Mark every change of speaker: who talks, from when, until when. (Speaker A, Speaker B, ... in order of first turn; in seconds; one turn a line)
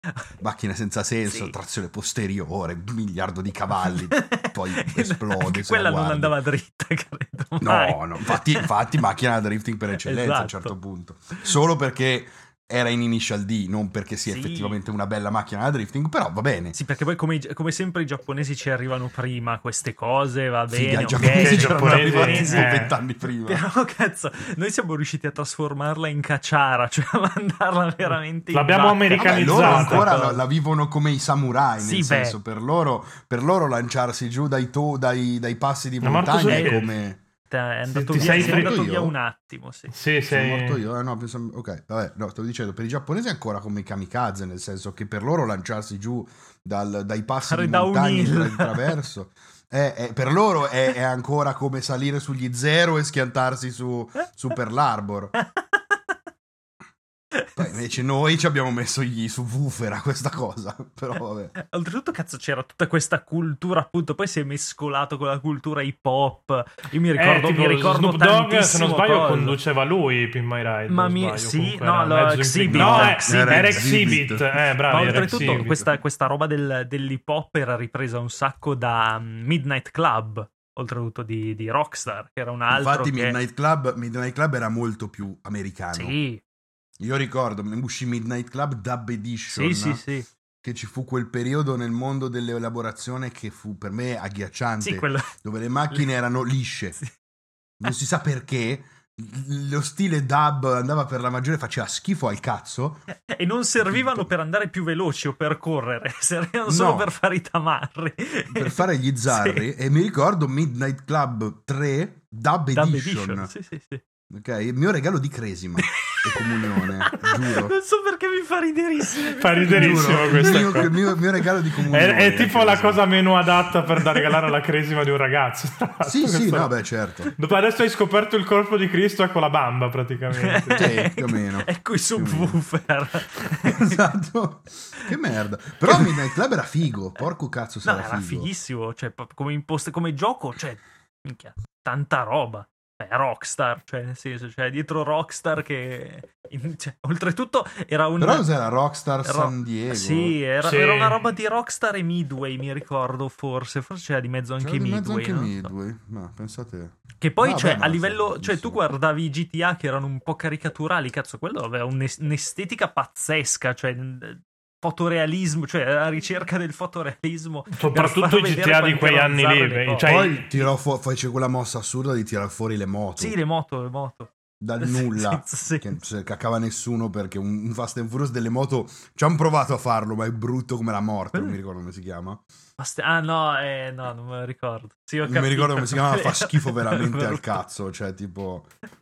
Speaker A: 0.4-6.4
Speaker B: 1.3-1.6
Speaker B: 3.8-8.7
Speaker A: 7.6-16.8
Speaker B: 10.0-10.8
Speaker B: 14.3-14.8
Speaker B: 16.7-22.8
Speaker A: 20.7-23.6
Speaker C: 21.2-22.9
Speaker B: 23.4-30.4
Speaker C: 28.5-30.1
Speaker A: 29.2-37.2
Speaker B: 31.8-32.4
Speaker C: 36.0-36.9
Speaker B: 36.5-36.8
Speaker B: 37.5-39.9
Speaker C: 37.9-38.8
Speaker A: 38.1-39.1
Speaker C: 39.9-40.8
Speaker A: 40.3-55.3
Speaker B: 47.4-49.0
Speaker B: 57.4-57.8
Speaker A: 57.6-61.5
Speaker B: 61.6-69.6
Speaker C: 67.2-75.8
Speaker B: 70.9-74.2
Speaker A: 72.7-75.9
Speaker B: 74.9-83.4
Speaker A: 82.7-86.2
Speaker B: 85.9-86.4
Speaker A: 87.0-90.0
Speaker B: 89.5-90.3
Speaker A: 90.6-97.0
Speaker B: 94.8-95.3
Speaker A: 97.8-103.1
Speaker B: 103.1-109.6
Speaker A: 103.8-104.3
Speaker A: 106.7-107.1
Speaker A: 108.5-113.5
Speaker B: 112.7-114.0
Speaker A: 114.3-117.7
Speaker B: 115.8-121.1
Speaker C: 119.4-120.9
Speaker A: 119.7-123.0
Speaker C: 121.9-126.7
Speaker A: 126.0-127.3
Speaker C: 127.3-130.9
Speaker B: 130.3-134.1
Speaker A: 130.8-132.6
Speaker A: 133.4-138.5
Speaker B: 135.9-136.3
Speaker B: 137.8-148.5
Speaker A: 148.2-150.4
Speaker B: 149.2-155.7
Speaker C: 150.6-151.2
Speaker A: 154.6-158.8
Speaker B: 157.2-170.6
Speaker C: 167.7-170.5
Speaker A: 170.0-173.3
Speaker B: 173.2-176.0
Speaker A: 174.6-182.4
Speaker B: 182.8-187.6
Speaker A: 185.2-188.7